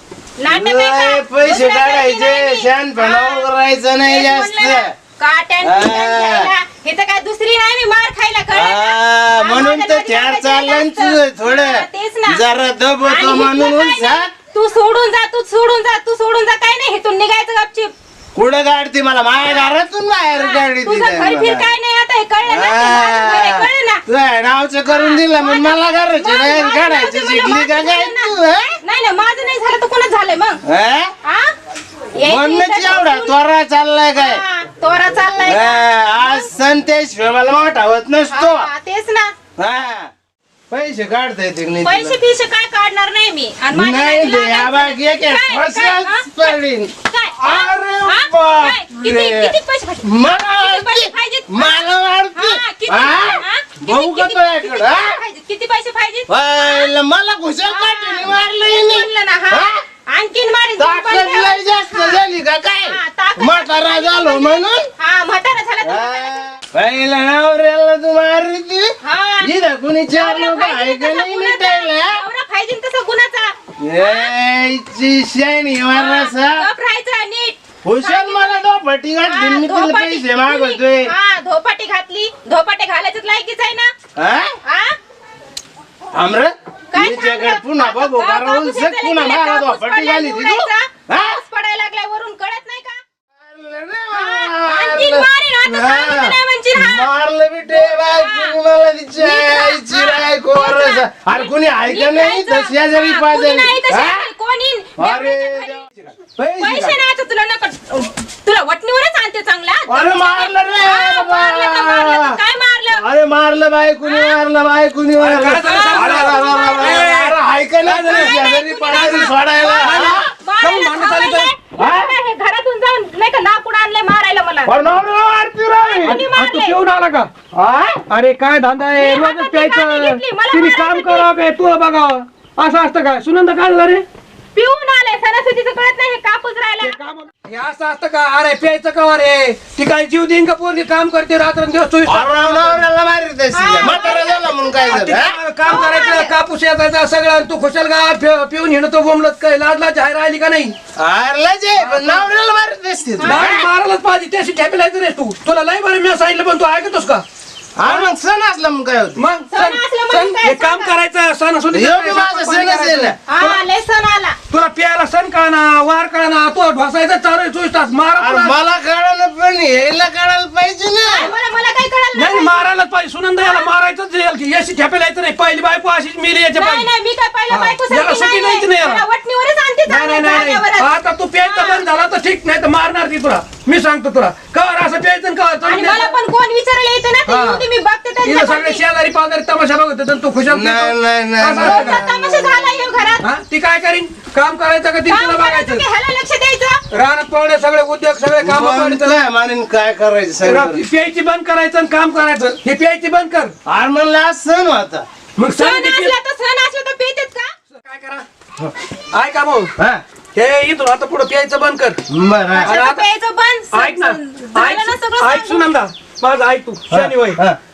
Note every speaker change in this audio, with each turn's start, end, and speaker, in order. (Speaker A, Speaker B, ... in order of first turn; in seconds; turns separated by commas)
Speaker A: 0.4-3.5, Speaker B: 0.5-4.9, Speaker A: 4.0-12.4, Speaker B: 5.6-6.5, Speaker B: 8.5-14.3, Speaker A: 13.0-17.9, Speaker B: 18.3-21.6, Speaker A: 19.4-19.7, Speaker A: 20.3-24.0, Speaker B: 22.4-28.7, Speaker A: 24.9-30.6, Speaker B: 30.6-31.1, Speaker A: 31.2-31.5, Speaker A: 32.2-33.3, Speaker B: 32.2-34.4, Speaker A: 34.1-36.5, Speaker B: 35.3-38.7, Speaker A: 38.3-39.3, Speaker B: 39.6-40.1, Speaker B: 40.7-42.2, Speaker A: 41.8-56.9, Speaker B: 43.7-55.1, Speaker B: 56.3-59.8, Speaker A: 57.7-62.2, Speaker B: 60.8-64.8, Speaker A: 62.9-66.5, Speaker B: 65.8-68.9, Speaker A: 69.0-69.5, Speaker B: 69.4-72.2, Speaker A: 70.1-74.3, Speaker B: 73.8-76.7, Speaker A: 75.9-78.7, Speaker B: 77.8-81.1, Speaker A: 79.2-83.9, Speaker B: 84.2-84.6, Speaker A: 84.6-85.0, Speaker B: 86.1-91.4, Speaker A: 86.9-93.0, Speaker B: 93.4-104.3, Speaker A: 94.1-97.1, Speaker A: 97.7-98.5, Speaker A: 99.2-105.8, Speaker B: 105.0-107.0, Speaker A: 106.6-113.0, Speaker B: 109.9-112.4, Speaker B: 112.9-120.3, Speaker A: 114.0-114.4, Speaker C: 115.2-121.5, Speaker A: 115.5-117.0, Speaker A: 118.1-124.8, Speaker B: 121.8-122.1, Speaker B: 124.7-126.2, Speaker A: 125.8-126.8, Speaker C: 126.0-127.3, Speaker B: 127.5-128.0, Speaker C: 128.1-134.0, Speaker A: 128.9-131.3, Speaker A: 134.5-136.9, Speaker C: 136.8-142.8, Speaker B: 142.0-145.4, Speaker A: 143.5-144.9, Speaker C: 144.9-150.8, Speaker A: 145.6-146.3, Speaker B: 150.9-153.6, Speaker C: 151.8-152.3, Speaker A: 153.2-153.7, Speaker C: 153.2-157.2, Speaker B: 157.8-159.2, Speaker C: 157.8-158.1, Speaker C: 159.2-163.6, Speaker A: 159.5-160.9, Speaker B: 161.7-163.2, Speaker A: 163.3-164.4, Speaker C: 164.5-168.5, Speaker B: 168.2-171.3, Speaker A: 171.1-172.6, Speaker C: 172.1-176.9, Speaker A: 173.4-173.7, Speaker A: 176.5-181.8, Speaker C: 177.5-179.0, Speaker C: 179.9-186.1, Speaker A: 185.7-188.8, Speaker C: 187.3-187.6, Speaker C: 188.2-192.0, Speaker B: 190.4-192.9, Speaker A: 191.5-193.3, Speaker C: 193.2-195.8, Speaker A: 195.1-196.8, Speaker C: 196.9-199.2, Speaker B: 198.4-200.8, Speaker C: 200.4-203.5, Speaker B: 203.6-205.0, Speaker C: 205.4-206.1, Speaker A: 205.6-207.5, Speaker C: 207.7-208.2, Speaker C: 209.1-209.7, Speaker C: 210.3-212.0, Speaker B: 212.1-212.7, Speaker C: 212.5-213.0, Speaker A: 212.6-215.6, Speaker C: 213.7-217.4, Speaker B: 216.9-217.6